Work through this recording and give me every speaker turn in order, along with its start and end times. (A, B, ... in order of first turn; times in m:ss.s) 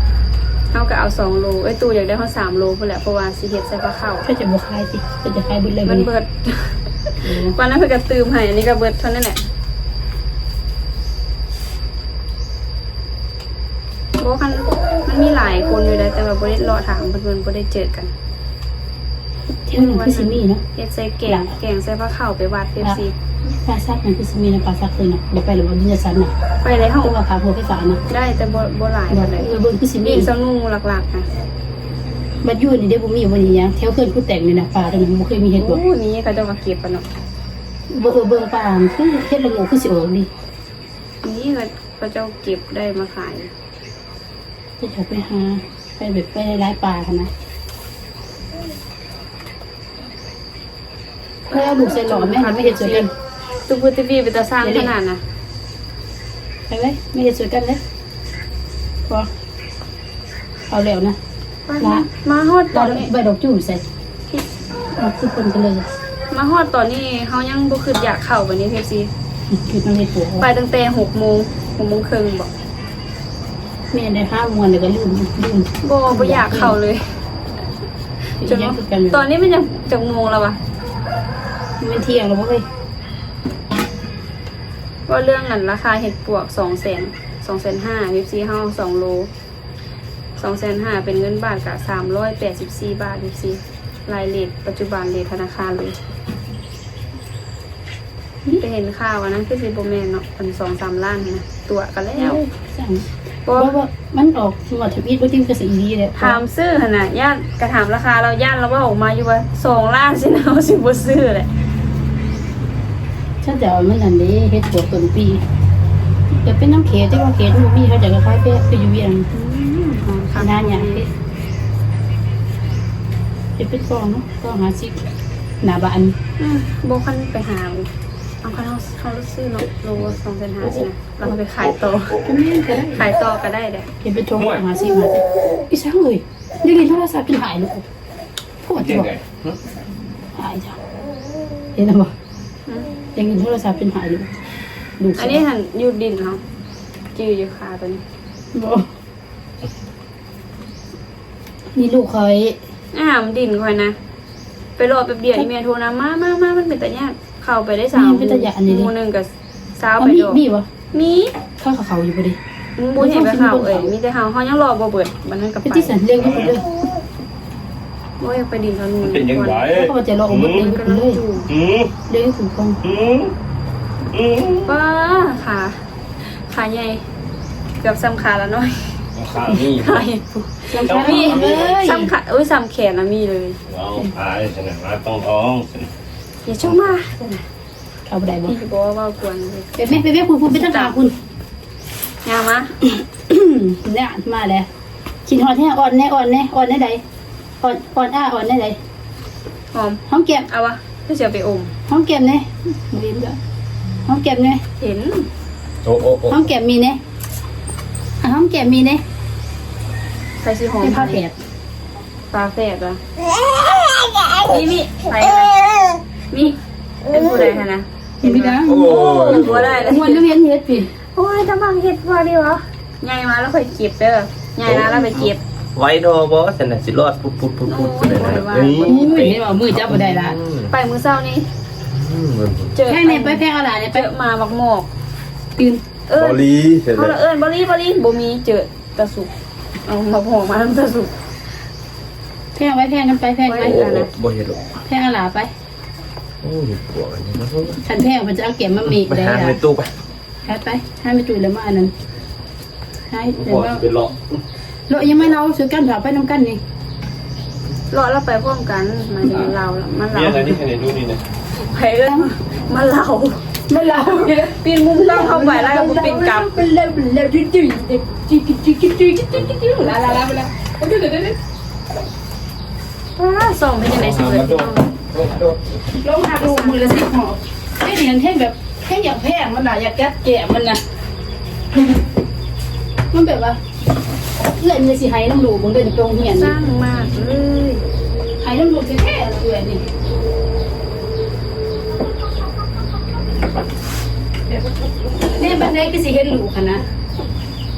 0:00.7-0:04.2 A
0:04.2-0:06.1 B
0:05.8-0:09.4 A
0:07.2-0:07.6 B
0:14.2-0:18.1 A
0:19.7-0:20.6 B
0:19.7-0:23.1 A
0:21.3-0:21.5 B
0:22.8-0:26.3 B
0:26.6-0:27.1 A
0:27.0-0:28.0 B
0:28.1-0:29.5 A
0:29.1-0:30.3 B
0:30.0-0:31.3 A
0:32.4-0:35.8 B
0:35.6-0:37.0 A
0:37.9-0:40.3 B
0:41.2-0:43.5 A
0:44.8-0:47.3 B
0:51.5-0:53.1 A
0:51.5-0:53.1 B
0:53.7-0:55.2 A
0:54.6-0:54.9 B
0:56.7-0:57.8 B
1:00.7-1:01.2 B
1:01.7-1:03.1 A
1:01.8-1:02.0 B
1:02.7-1:03.8 B
1:05.0-1:05.9 B
1:06.3-1:09.1 A
1:09.5-1:10.5 B
1:10.4-1:12.5 A
1:13.9-1:16.8 B
1:15.8-1:17.0 A
1:18.3-1:20.6 A
1:18.4-1:19.3 B
1:21.8-1:22.6 B
1:25.1-1:29.3 A
1:30.4-1:36.0 A
1:38.6-1:42.4 A
1:42.2-1:46.4 B
1:43.4-1:43.7 A
1:46.2-1:51.5 A
1:53.4-1:55.4 B
1:56.3-1:59.3 B
1:59.3-2:01.0 A
2:00.4-2:01.1 B
2:03.6-2:05.1 B
2:05.6-2:06.1 B
2:06.4-2:07.9 A
2:08.4-2:12.2 A
2:12.2-2:13.0 B
2:12.9-2:13.9 A
2:14.0-2:17.9 B
2:14.4-2:14.6 C
2:18.6-2:19.1 B
2:18.8-2:19.6 C
2:20.3-2:20.8 B
2:21.7-2:22.1 B
2:23.1-2:24.4 B
2:25.0-2:25.4 B
2:25.2-2:26.4 A
2:27.1-2:28.0 A
2:28.5-2:28.9 B
2:31.7-2:32.6 B
2:32.9-2:33.9 A
2:34.8-2:40.4 A
2:37.9-2:38.9 B
2:40.0-2:40.7 B
2:40.9-2:41.3 A
2:41.6-2:42.4 B
2:42.8-2:46.0 A
2:43.0-2:43.9 B
2:45.6-2:46.6 B
2:46.2-2:46.6 C
2:48.2-2:49.6 A
2:49.0-2:50.7 C
2:49.7-2:51.2 B
2:50.4-2:51.5 A
2:51.5-2:51.9 C
2:52.1-2:52.8 B
2:52.8-2:53.3 C
2:54.1-2:54.7 C
2:54.6-2:57.0 A
2:57.8-2:58.9 A
2:59.2-3:00.1 C
2:59.4-3:03.6 A
3:00.7-3:02.1 B
3:00.8-3:01.7 C
3:03.7-3:05.9 C
3:06.4-3:07.4 A
3:06.6-3:06.9 C
3:08.1-3:08.6 B
3:08.4-3:09.8 A
3:09.8-3:11.2 B
3:10.5-3:11.0 A
3:12.2-3:12.7 A
3:12.8-3:14.7 B
3:15.2-3:17.0 B
3:17.6-3:18.8 B
3:19.7-3:21.7 A
3:20.1-3:20.5 B
3:21.9-3:23.4 B
3:24.0-3:24.6 B
3:24.8-3:25.3 A
3:25.8-3:26.4 C
3:26.3-3:27.0 B
3:28.2-3:29.0 B
3:30.4-3:31.2 A
3:30.8-3:31.3 B
3:32.3-3:33.0 A
3:34.4-3:35.6 A
3:36.3-3:40.2 A
3:38.2-3:40.9 B
3:38.6-3:39.9 C
3:41.1-3:45.4 A
3:44.6-3:50.7 C
3:47.6-3:49.4 A
3:48.8-3:50.4 B
3:50.7-3:51.5 A
3:51.9-3:52.7 C
3:52.7-3:54.9 A
3:52.8-3:54.1 B
3:55.6-3:55.8 B
3:56.1-3:56.4 A
3:56.2-3:57.1 C
3:56.9-3:59.3 A
3:59.8-4:01.1 A
4:02.6-4:03.9 B
4:03.4-4:04.1 A
4:03.6-4:04.6 C
4:04.8-4:05.5 B
4:06.4-4:07.8 C
4:07.8-4:09.6 B
4:08.9-4:09.9 C
4:10.4-4:11.9 B
4:13.1-4:13.8 B
4:13.4-4:14.4 C
4:14.9-4:16.6 B
4:17.9-4:20.6 A
4:19.2-4:19.5 C
4:20.1-4:21.2 C
4:21.6-4:23.4 A
4:23.7-4:31.4 B
4:24.6-4:26.6 A
4:33.2-4:34.9 A
4:33.8-4:35.8 C
4:36.0-4:40.8 B
4:36.4-4:37.1 A
4:43.1-4:43.6 B
4:44.4-4:46.5 B
4:46.2-4:47.8 A
4:48.4-4:49.9 B
4:55.2-4:56.8 B